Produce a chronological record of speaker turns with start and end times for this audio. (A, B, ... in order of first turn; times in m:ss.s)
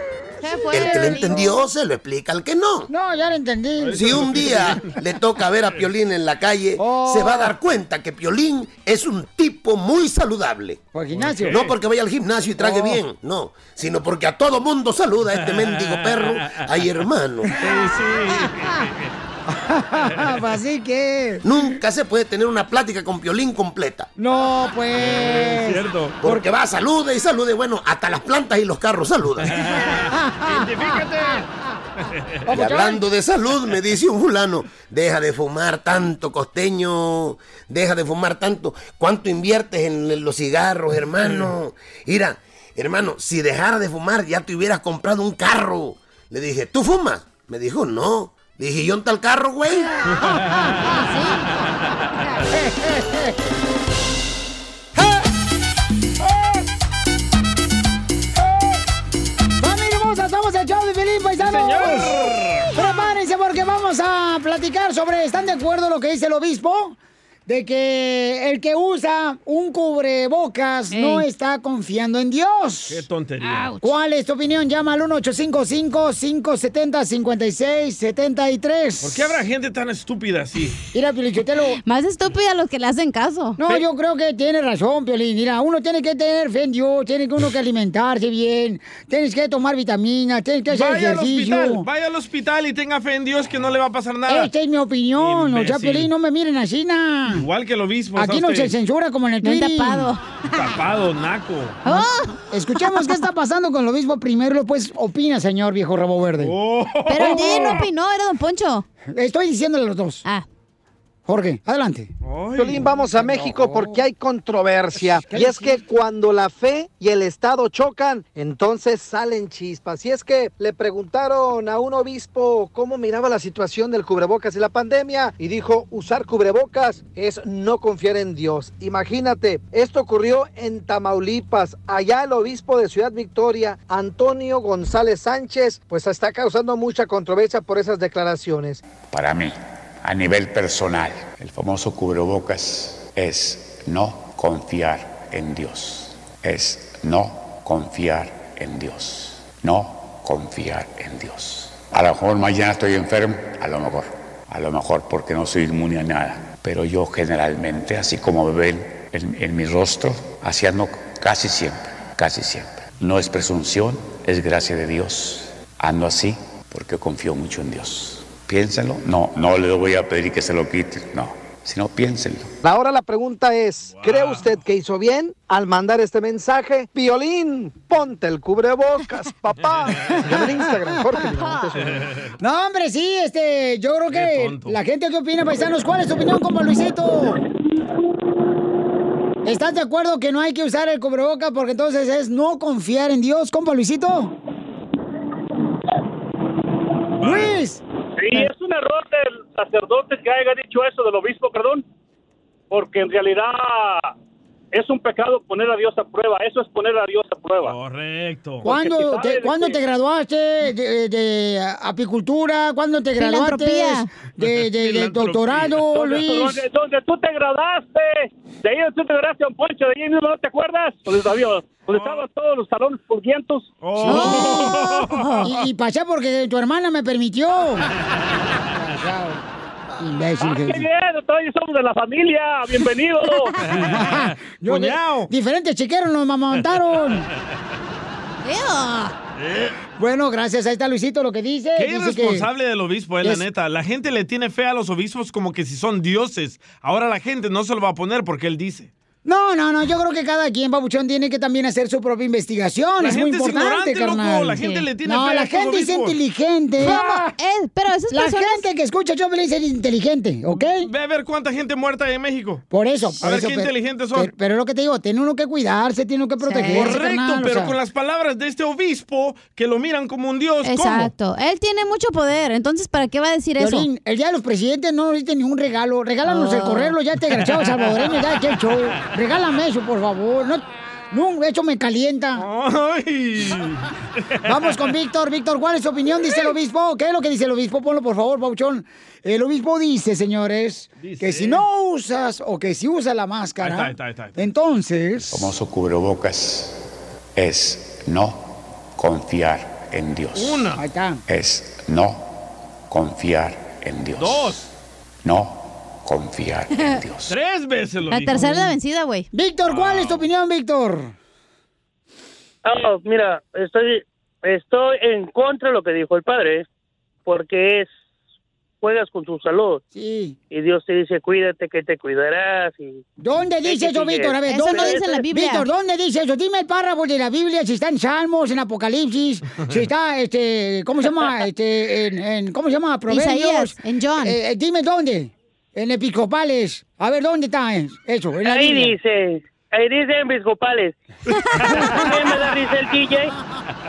0:00.4-0:01.5 A
0:00.7-0:02.9 B
0:02.9-0:04.8 C
0:03.8-0:04.8 D
0:03.9-0:10.8 B
0:06.8-0:07.5 C
0:10.9-0:11.6 C
0:11.1-0:11.7 D
0:11.5-0:17.5 B
0:12.6-0:13.0 C
0:15.4-0:16.6 D
0:17.6-0:19.1 D
0:18.4-0:18.7 C
0:19.5-0:21.4 C
0:20.1-0:20.4 D
0:21.4-0:24.1 B
0:24.2-0:26.4 C
0:25.0-0:26.2 D
0:26.2-0:29.5 B
0:29.5-0:31.5 D
0:29.8-0:31.5 C
0:32.0-0:32.8 D
0:32.5-0:33.0 C
0:32.5-0:50.0 B
0:50.1-0:50.9 D
0:50.9-0:51.6 A
0:52.1-0:52.4 A
0:52.5-0:53.3 C
0:59.6-1:02.2 C
1:01.4-1:02.7 D
1:02.7-1:13.0 C
1:10.9-1:11.3 A
1:12.9-1:13.7 D
1:13.4-1:13.9 A
1:13.8-1:19.2 C
1:19.0-1:20.8 D
1:20.9-1:21.8 C
1:21.8-1:23.6 A
1:23.6-1:31.8 C
1:30.7-1:34.5 D
1:34.3-1:37.4 C
1:35.2-1:36.1 D
1:37.3-1:38.8 D
1:38.2-1:40.1 C
1:39.4-1:40.2 A
1:40.5-1:41.8 D
1:41.8-1:43.2 A
1:41.9-1:46.5 C
1:46.4-1:47.8 D
1:47.1-1:48.9 A
1:47.2-1:47.8 C
1:49.1-1:50.2 C
1:51.3-1:52.1 C
1:52.2-1:52.9 D
1:52.6-2:18.8 E
1:53.2-1:54.0 C
1:55.0-1:55.8 C
2:19.1-2:52.5 F
2:52.6-3:02.1 E
2:53.9-2:54.6 D
2:59.9-3:00.3 D
3:00.3-3:01.0 C
3:01.4-3:01.7 A
3:01.8-3:02.3 D
3:02.4-3:07.4 C
3:04.1-3:04.8 D
3:09.4-3:14.3 C
3:17.2-3:17.6 D
3:17.2-3:17.8 C
3:18.2-3:21.8 G
3:22.7-3:24.1 G
3:24.7-3:27.8 G
3:27.6-3:28.6 D
3:28.6-3:29.8 G
3:28.6-3:36.6 C
3:33.2-3:34.1 A
3:34.4-3:36.1 D
3:35.9-3:43.8 G
3:41.9-3:42.2 D
3:43.8-3:45.5 D
3:44.0-3:44.8 C
3:44.0-3:45.5 A
3:45.4-3:47.9 C
3:48.8-3:49.4 C
3:50.0-3:50.9 C
3:50.4-3:53.6 G
3:53.7-3:55.3 D
3:53.7-3:57.3 C
3:58.4-3:59.2 A
3:59.4-3:59.8 D
4:00.0-4:02.5 C
4:01.8-4:08.9 D
4:09.2-4:17.3 C
4:13.0-4:16.2 D
4:14.6-4:14.9 A
4:16.8-4:18.6 A
4:18.1-4:20.9 C
4:20.8-4:22.6 D
4:22.7-4:27.7 C
4:23.2-4:24.3 D
4:26.4-4:27.0 A
4:26.7-4:31.1 D
4:30.6-4:33.9 A
4:33.6-4:42.5 C
4:36.2-4:36.9 A
4:37.6-4:38.0 D
4:42.4-4:44.9 D
4:44.4-4:55.5 C
4:51.0-4:51.6 D
4:53.6-4:54.4 D
4:55.3-4:56.8 F
4:57.4-5:00.6 F
5:00.4-5:00.8 D
5:00.8-5:01.2 C
5:01.3-5:02.3 F
5:02.9-5:04.6 F
5:04.2-5:04.6 D
5:05.2-5:07.3 F
5:07.3-5:08.6 D
5:08.1-5:09.3 A
5:09.3-5:11.1 C
5:09.7-5:10.3 D
5:12.6-5:16.7 H
5:17.3-5:17.9 H
5:18.8-5:19.8 H
5:19.9-5:20.4 C
5:20.5-5:23.0 H
5:23.2-5:38.9 C
5:23.6-5:25.3 H
5:24.5-5:25.7 A
5:33.1-5:34.4 A
5:38.4-5:41.0 H
5:41.5-5:42.4 D
5:41.6-5:42.0 A
5:41.9-5:43.3 H